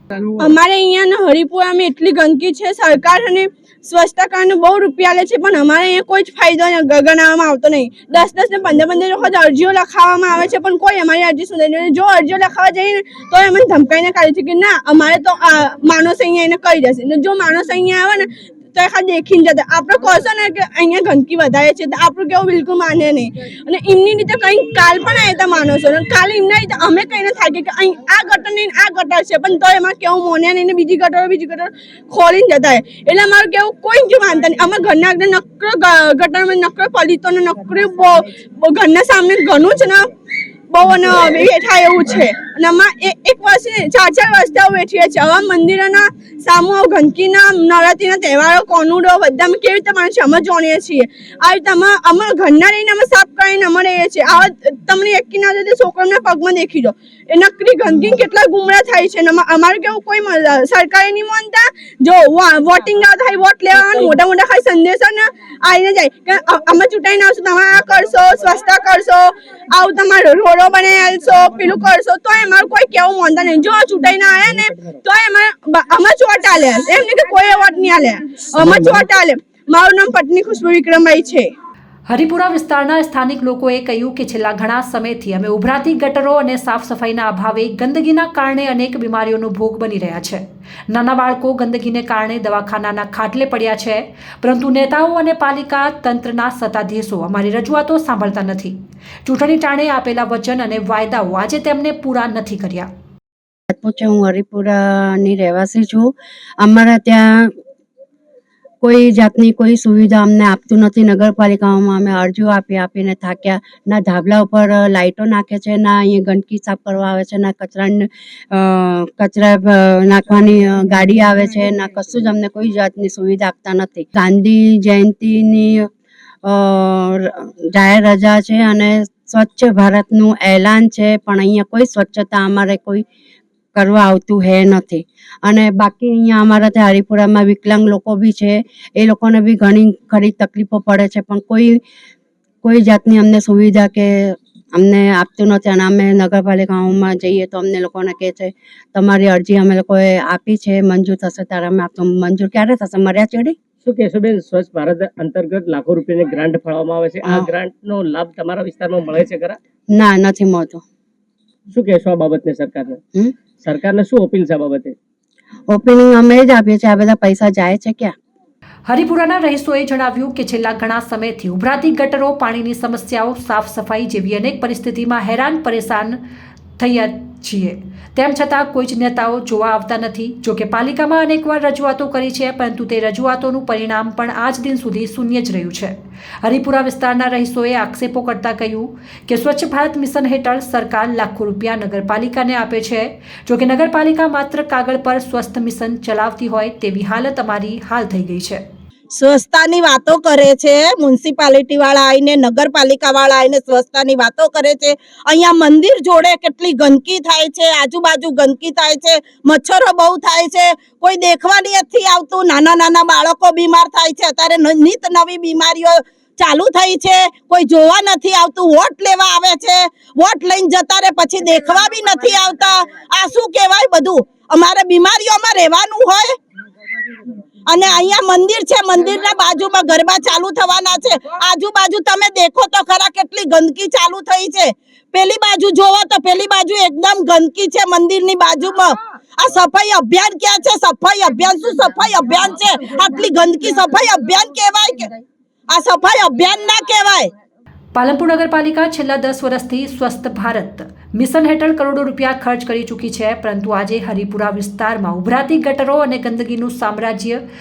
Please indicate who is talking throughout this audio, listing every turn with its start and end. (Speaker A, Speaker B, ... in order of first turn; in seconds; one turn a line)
Speaker A: 0.4-40.1
Speaker A: 40.7-81.5
Speaker B: 78.6-79.0
Speaker C: 82.1-102.9
Speaker D: 103.7-107.5
Speaker D: 108.8-125.9
Speaker D: 126.4-133.0
Speaker D: 133.7-141.8
Speaker D: 142.6-153.5
Speaker B: 153.8-159.6
Speaker D: 157.2-157.5
Speaker D: 159.9-160.8
Speaker B: 161.7-163.0
Speaker B: 163.6-164.9
Speaker D: 165.7-168.1
Speaker C: 168.8-176.2
Speaker C: 176.8-198.6
Speaker E: 199.2-226.4
Speaker E: 227.7-245.1
Speaker E: 245.7-247.3
Speaker C: 247.9-257.4